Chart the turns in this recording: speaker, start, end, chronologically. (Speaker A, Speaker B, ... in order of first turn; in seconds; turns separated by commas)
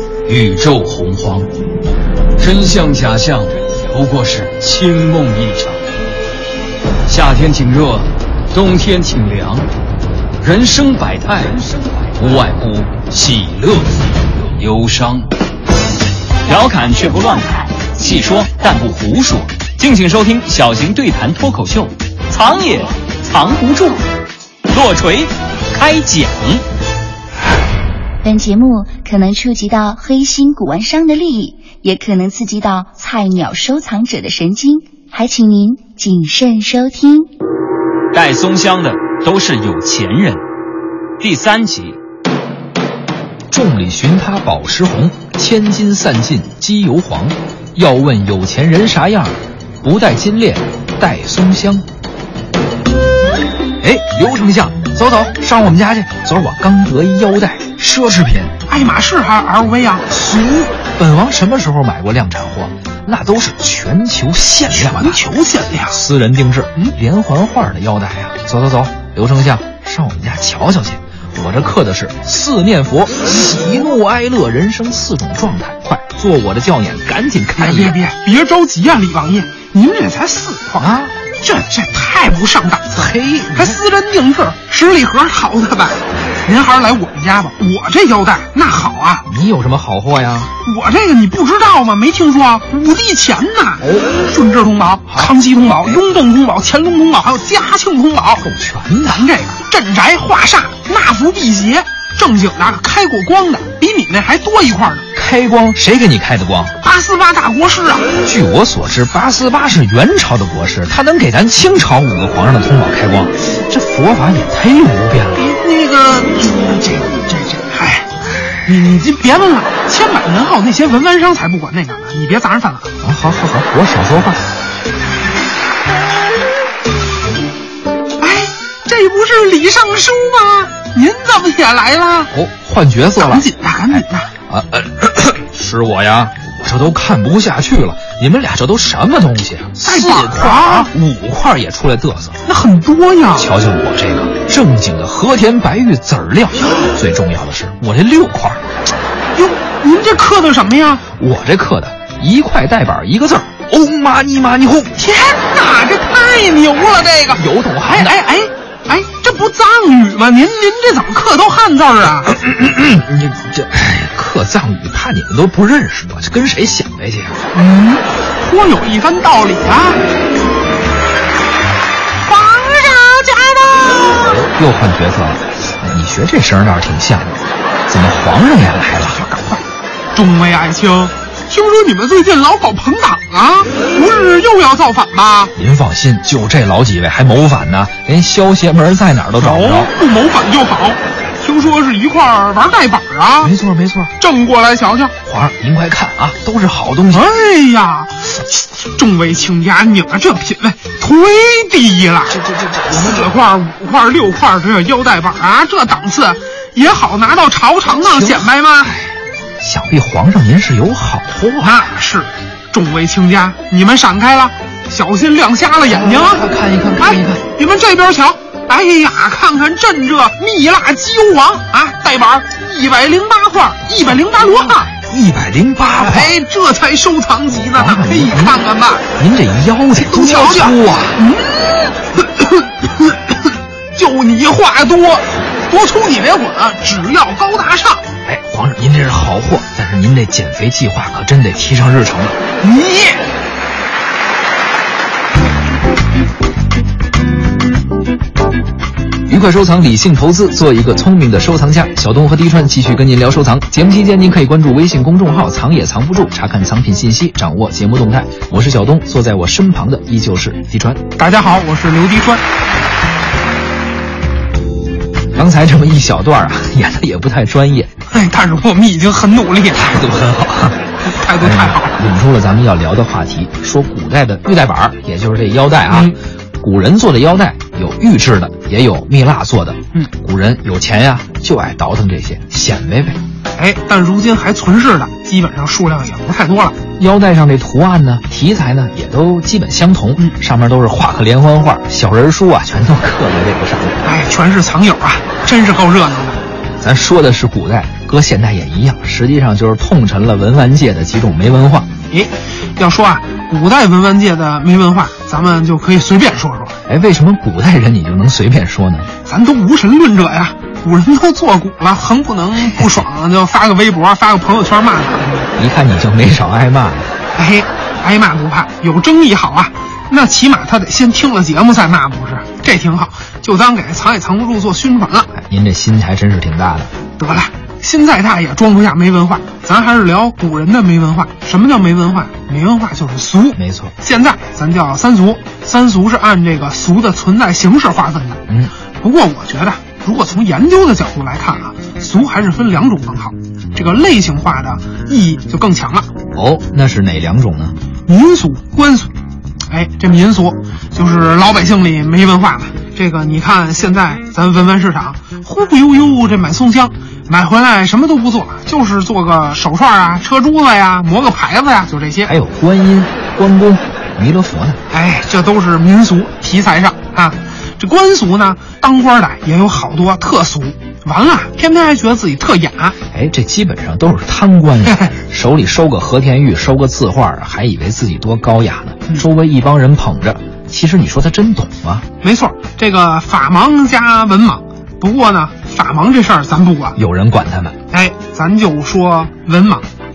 Speaker A: 0.2-1.5, Speaker A: 2.4-5.8, Speaker A: 7.0-9.7, Speaker A: 10.4-15.3, Speaker B: 16.4-24.0, Speaker B: 24.7-26.6, Speaker C: 28.2-37.3, Speaker B: 38.1-40.4, Speaker B: 41.2-42.0, Speaker D: 43.5-51.9, Speaker D: 53.8-58.5, Speaker E: 58.7-60.2, Speaker D: 60.2-65.2, Speaker E: 64.7-66.0, Speaker D: 65.9-78.0, Speaker E: 77.6-89.3, Speaker D: 80.8-81.1, Speaker D: 82.9-83.8, Speaker D: 89.2-90.5, Speaker E: 90.6-98.5, Speaker D: 93.8-94.1, Speaker D: 95.1-96.0, Speaker D: 98.4-99.3, Speaker E: 99.1-105.1, Speaker D: 105.1-106.8, Speaker E: 106.8-108.1, Speaker D: 108.2-115.4, Speaker E: 115.3-118.1, Speaker E: 118.6-122.9, Speaker D: 123.0-124.4, Speaker E: 128.2-132.3, Speaker D: 132.3-142.4, Speaker E: 133.2-134.3, Speaker E: 139.8-140.9, Speaker E: 142.4-143.5, Speaker D: 143.3-148.6, Speaker E: 149.3-151.0, Speaker D: 151.2-154.9, Speaker E: 154.9-162.3, Speaker D: 157.3-158.2, Speaker D: 162.2-167.5, Speaker E: 167.5-170.0, Speaker E: 172.2-174.4, Speaker D: 174.1-179.2, Speaker E: 179.0-185.5, Speaker D: 185.5-189.9, Speaker E: 189.4-193.5, Speaker D: 193.4-194.1, Speaker E: 194.2-195.1, Speaker D: 195.2-197.3, Speaker E: 197.1-209.0, Speaker D: 202.3-203.3, Speaker D: 208.0-208.5, Speaker D: 209.6-211.9, Speaker E: 211.6-224.9, Speaker D: 215.8-217.4, Speaker D: 225.0-226.4, Speaker E: 226.0-229.1, Speaker D: 227.6-228.6, Speaker D: 229.2-231.2, Speaker E: 230.0-233.4, Speaker E: 233.9-238.0, Speaker D: 238.2-242.4, Speaker E: 242.6-243.3, Speaker D: 249.3-261.0, Speaker E: 261.1-262.4, Speaker D: 265.3-267.9, Speaker E: 268.1-270.0, Speaker D: 269.8-270.8, Speaker E: 271.0-271.9, Speaker D: 271.4-283.2, Speaker E: 275.9-276.1, Speaker E: 283.6-286.8, Speaker D: 287.0-294.0, Speaker E: 294.0-296.4, Speaker D: 296.8-301.9, Speaker E: 302.1-306.7, Speaker D: 306.9-309.1, Speaker E: 309.2-315.5, Speaker D: 315.6-317.1, Speaker E: 317.3-325.3, Speaker D: 325.3-326.9, Speaker E: 327.2-338.4, Speaker D: 333.6-333.9, Speaker D: 338.5-338.7, Speaker E: 339.0-346.1, Speaker D: 346.3-347.8, Speaker E: 348.1-349.1, Speaker E: 349.7-362.3, Speaker D: 362.2-364.8, Speaker E: 364.9-372.9, Speaker D: 373.1-382.1, Speaker E: 374.8-375.1, Speaker E: 382.2-387.0, Speaker D: 386.9-387.8, Speaker E: 387.9-389.9